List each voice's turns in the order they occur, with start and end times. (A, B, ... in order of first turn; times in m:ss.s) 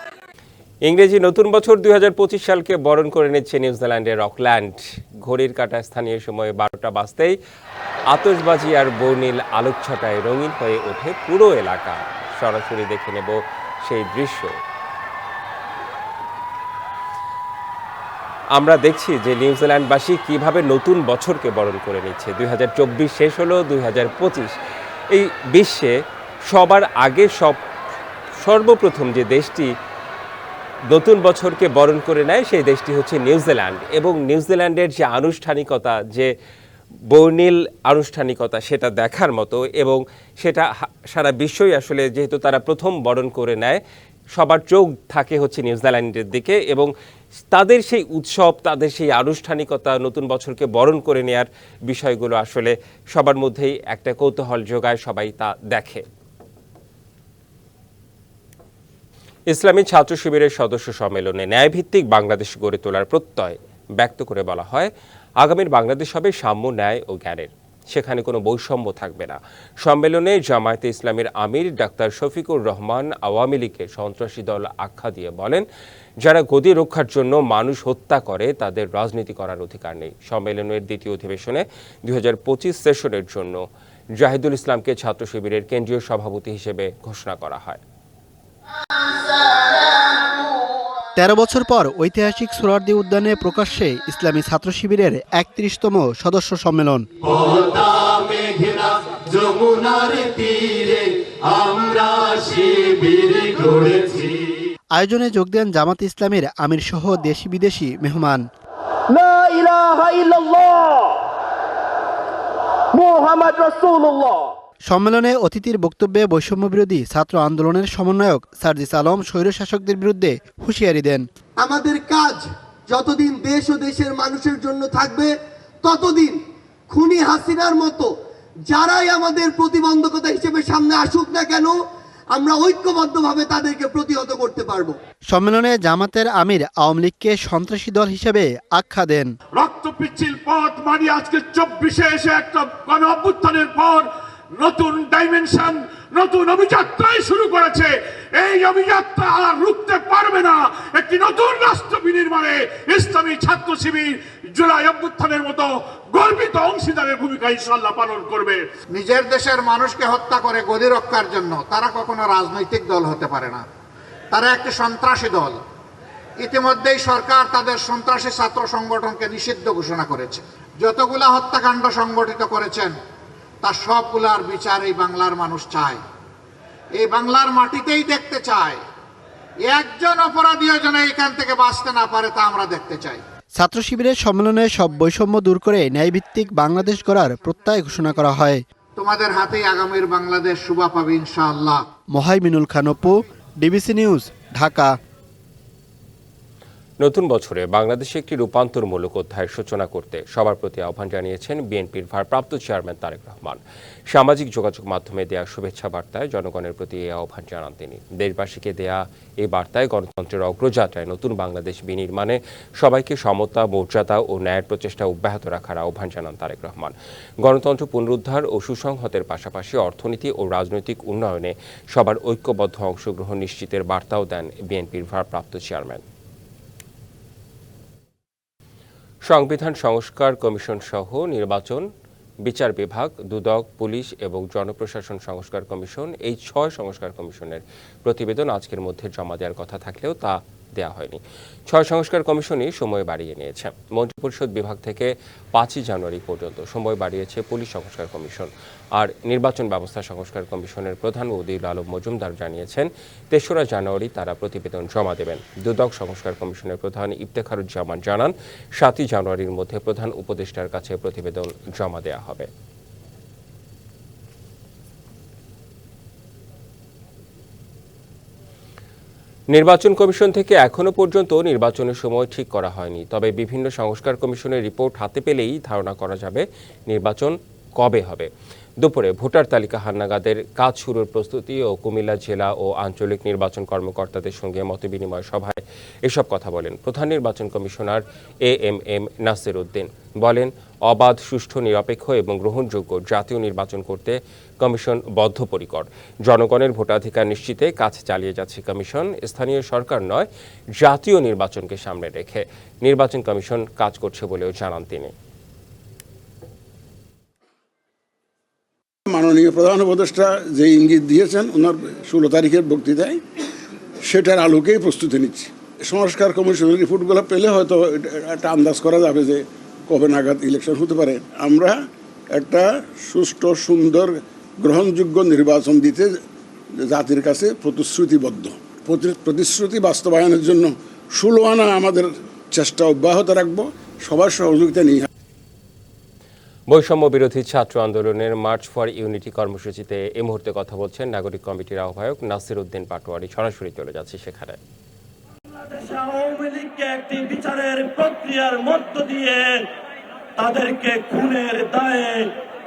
0:00.9-0:07.4 A
0:08.1-0:14.6 A
0:18.6-0:24.6 A
0:25.1-0:26.0 A
0:26.5-0:27.6 A
0:28.4-0:29.7 A
0:30.9-0:36.3 A
0:37.1-0:43.8 A
0:44.4-0:46.9 A
0:47.5-0:56.1 A
0:59.5-1:15.6 A
1:16.2-1:23.6 A
1:24.2-1:27.8 A
1:31.2-1:37.1 B
1:37.2-1:44.5 C
1:44.9-1:48.4 B
1:49.1-1:51.2 C
1:52.9-1:54.5 C
1:54.8-2:01.3 B
2:01.6-2:05.3 C
2:05.8-2:06.4 C
2:06.9-2:08.1 C
2:08.7-2:11.7 C
2:12.4-2:15.0 C
2:15.3-2:19.3 B
2:19.6-2:38.6 D
2:38.9-2:43.6 E
2:44.3-2:45.6 E
2:46.4-2:53.0 E
2:53.6-2:56.0 E
2:57.0-2:58.8 E
2:59.7-3:03.2 E
3:03.6-3:08.6 B
3:09.0-3:11.8 E
3:12.1-3:15.0 B
3:17.0-3:46.0 A
3:49.3-3:51.9 A
3:52.4-4:22.5 A
4:29.5-4:38.3 A
4:38.8-5:05.1 A
5:09.1-5:13.2 F
5:14.0-5:26.2 F
5:26.8-5:35.1 F
5:36.7-5:44.6 A
5:45.5-5:49.5 G
5:50.4-5:52.3 G